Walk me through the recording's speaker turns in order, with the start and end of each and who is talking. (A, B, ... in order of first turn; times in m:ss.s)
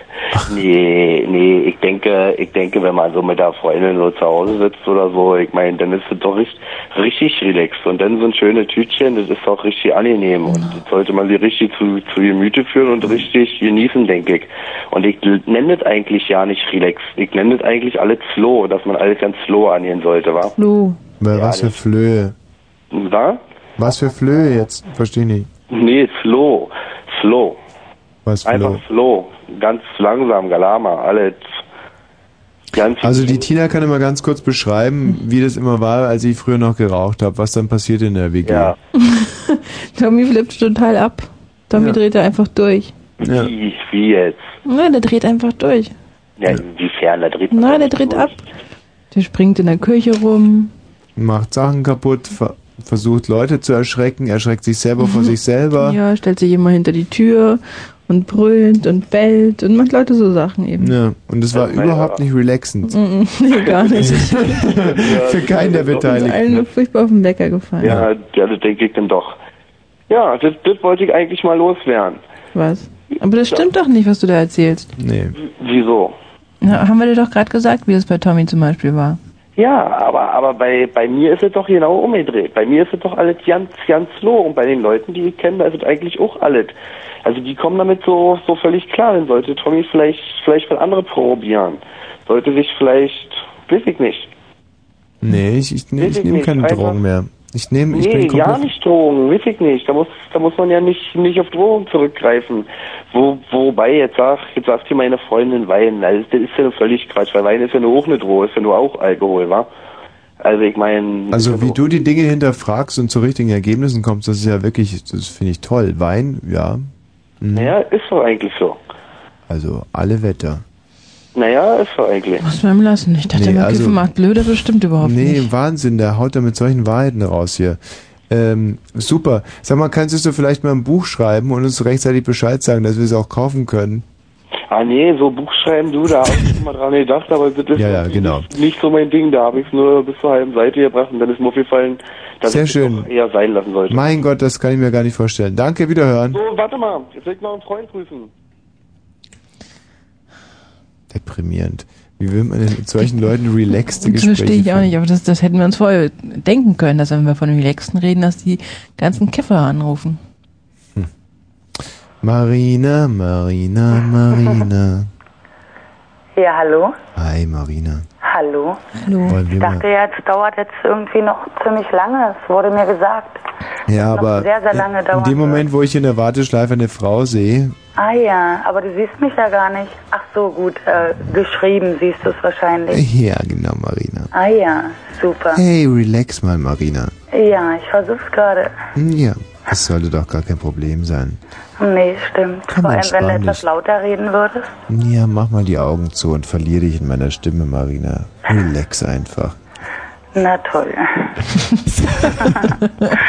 0:00.4-0:20.5 A
0:20.6-0:21.0 B
0:21.2-0:22.3 C
0:21.3-0:21.7 A
0:22.9-0:23.4 A
0:23.8-0:25.5 C
0:25.7-0:27.6 A
0:28.2-0:28.8 C
0:28.4-0:31.6 A
0:32.7-0:33.5 A
0:33.0-0:38.7 C
0:39.0-0:42.9 B
0:43.2-0:43.5 C
0:43.2-0:44.5 A
0:44.6-0:45.9 B
0:46.4-0:48.3 A
0:47.5-0:48.4 B
0:49.1-0:50.7 B
0:51.2-0:56.0 C
0:55.0-1:00.9 B
1:00.8-1:03.0 C
1:01.7-1:02.0 A
1:02.9-1:04.6 B
1:04.0-1:06.6 C
1:05.1-1:05.8 A
1:05.9-1:08.0 B
1:07.8-1:09.4 A
1:07.8-1:08.1 C
1:10.1-1:12.2 A
1:12.5-1:14.9 B
1:15.0-1:15.3 C
1:15.4-1:16.1 A
1:16.6-1:19.2 B
1:19.6-1:34.3 A
1:35.2-1:38.7 C
1:36.0-1:37.0 A
1:37.9-1:49.7 A
1:50.4-1:51.8 A
1:51.3-1:56.9 C
1:57.4-1:57.8 C
1:57.5-1:58.8 A
1:59.5-2:00.6 C
2:01.3-2:02.4 A
2:02.4-2:05.4 B
2:03.3-2:04.0 C
2:05.0-2:14.0 C
2:14.7-2:24.1 A
2:17.8-2:18.4 C
2:22.5-2:23.1 C
2:23.9-2:26.4 C
2:26.3-2:28.3 A
2:31.1-2:34.9 C
2:34.0-2:40.2 B
2:42.2-2:45.1 C
2:46.4-2:47.0 D
2:47.2-2:48.0 C
2:48.2-2:48.8 D
2:49.0-2:49.4 B
2:49.2-2:49.8 C
2:49.5-2:53.4 D
2:53.9-2:57.8 C
2:54.0-2:55.6 D
2:58.0-3:03.0 D
3:02.9-3:04.3 C
3:04.3-3:05.6 D
3:05.5-3:07.1 C
3:07.3-3:08.7 D
3:08.9-3:11.4 C
3:11.8-3:14.8 D
3:12.7-3:13.6 C
3:14.9-3:19.6 C
3:20.3-3:21.3 D
3:22.4-3:22.6 D